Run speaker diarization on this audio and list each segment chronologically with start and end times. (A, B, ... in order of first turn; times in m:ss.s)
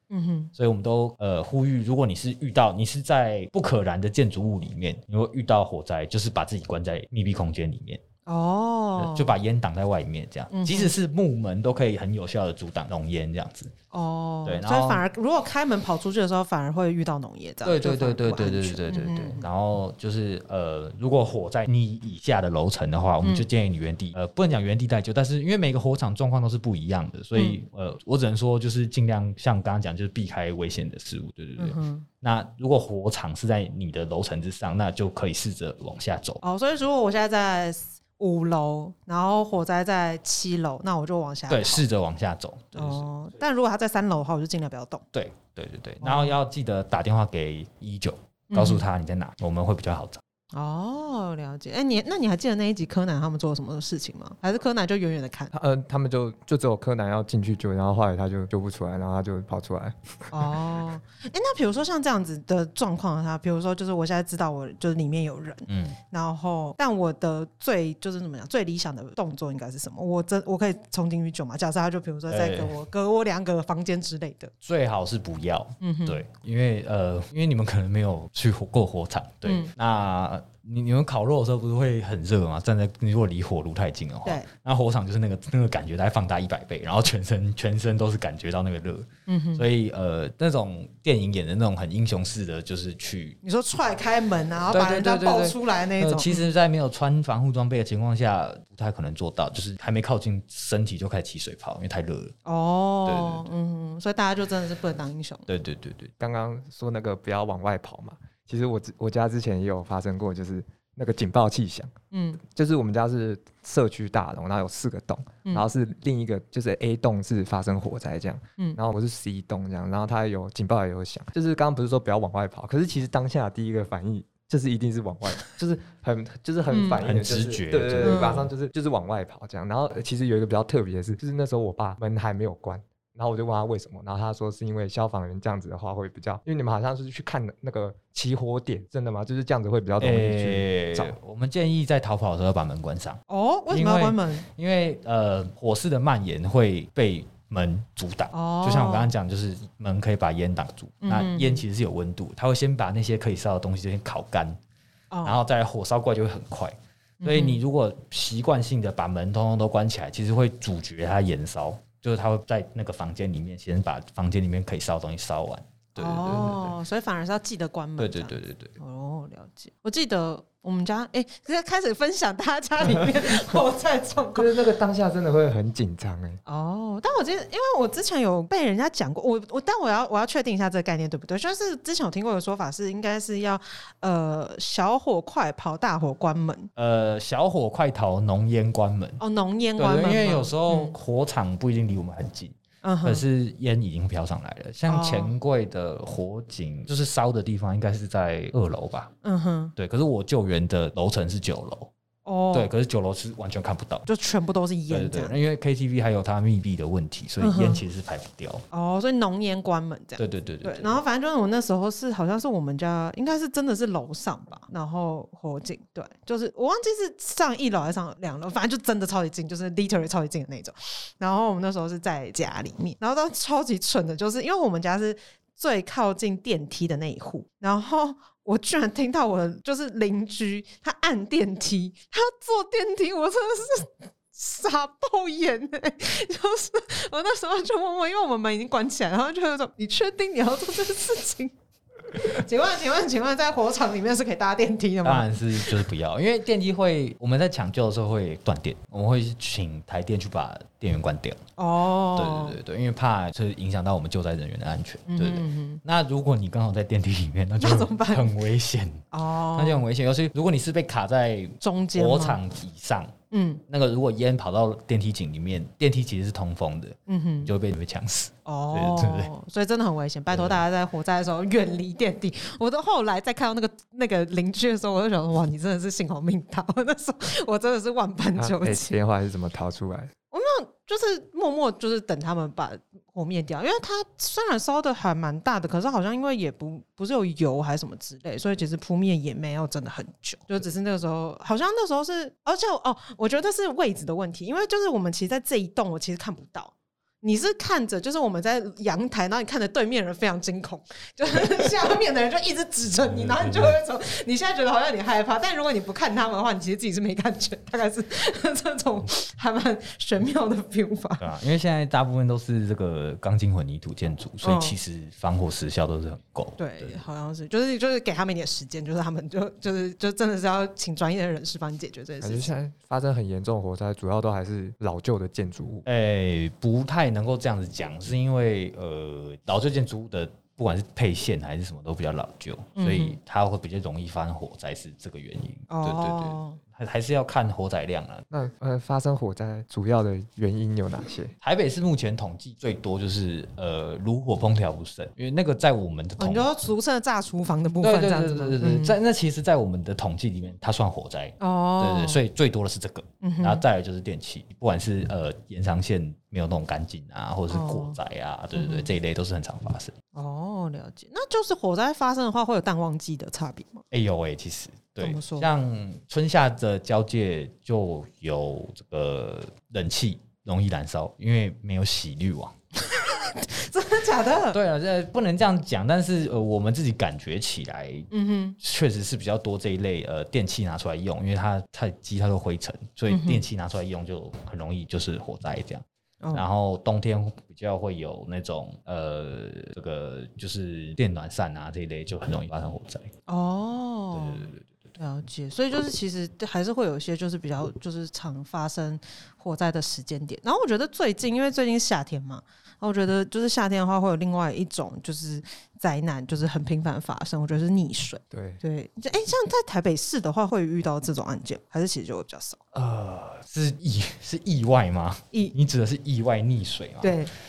0:00.1-0:00.5 A
0:00.6-0:08.0 B
0:08.2-0:09.3 A
0:09.0-0:13.7 B
0:10.5-0:10.9 A
0:13.9-0:19.4 A
0:14.4-0:15.0 B
0:17.6-0:36.4 B
0:31.6-0:32.0 A
0:36.4-0:41.8 A
0:41.5-0:43.1 B
0:42.7-0:45.0 A
0:45.1-0:50.2 B
0:46.0-0:46.4 A
0:48.5-0:48.8 A
0:50.5-0:55.5 A
0:55.5-1:00.5 C
1:00.3-1:14.5 A
1:05.7-1:06.0 B
1:12.3-1:12.7 B
1:14.6-1:33.4 B
1:15.8-1:16.2 A
1:19.4-1:19.7 A
1:29.3-1:29.6 A
1:33.4-1:36.5 A
1:34.7-1:42.3 B
1:42.4-1:45.4 A
1:43.0-1:43.4 B
1:45.5-1:46.1 B
1:46.2-2:21.2 C
1:52.1-1:52.4 A
2:06.7-2:07.0 A
2:07.0-2:08.5 B
2:08.0-2:08.4 A
2:20.0-2:34.6 B
2:23.3-2:24.5 A
2:28.3-2:29.1 A
2:31.0-2:31.6 A
2:35.1-2:35.4 A
2:35.2-2:46.8 B
2:37.2-2:37.6 A
2:46.0-2:54.5 A
2:48.0-2:48.7 B
2:54.3-2:56.4 C
2:56.4-3:06.7 A
3:06.8-3:09.2 B
3:09.2-3:10.9 A
3:09.8-3:19.1 B
3:12.8-3:13.2 A
3:14.9-3:15.3 A
3:19.2-3:19.7 A
3:19.8-3:21.9 B
3:22.2-3:22.7 A
3:22.5-3:24.1 B
3:24.1-3:25.3 A
3:24.9-3:28.6 B
3:27.4-3:27.8 A
3:28.7-4:01.5 A
3:30.2-3:31.0 B
4:02.1-4:05.8 A
4:05.0-4:11.4 B
4:11.6-4:12.6 A
4:12.2-4:23.1 B
4:15.1-4:15.8 A
4:17.6-4:18.3 A
4:19.1-4:19.8 A
4:21.6-4:22.4 A
4:23.3-4:23.6 A
4:23.7-4:29.3 B
4:27.1-4:27.5 A
4:28.4-4:39.0 A
4:30.3-4:30.6 B
4:38.4-4:40.1 C
4:40.3-5:11.2 A
5:03.0-5:03.8 B
5:11.2-5:17.0 B
5:14.4-5:14.8 A
5:16.6-5:22.5 A
5:22.2-5:25.8 C
5:25.8-5:38.2 B
5:32.8-5:33.2 A
5:35.7-5:36.6 A
5:38.3-5:41.3 C
5:41.4-5:46.5 B
5:46.2-5:48.9 A
5:47.8-5:59.9 B
5:51.4-5:52.2 A
5:53.2-5:53.6 A
5:57.5-5:58.0 A
5:58.5-5:58.9 A
6:00.1-6:03.8 A
6:03.9-6:12.5 B
6:05.0-6:05.5 A
6:12.8-6:14.6 A
6:14.5-6:33.1 B
6:18.1-6:18.6 A
6:23.1-6:23.4 A
6:33.3-6:52.6 A
6:34.1-6:34.9 B
6:48.3-6:48.6 C
6:52.7-6:57.2 B
6:57.0-6:57.3 A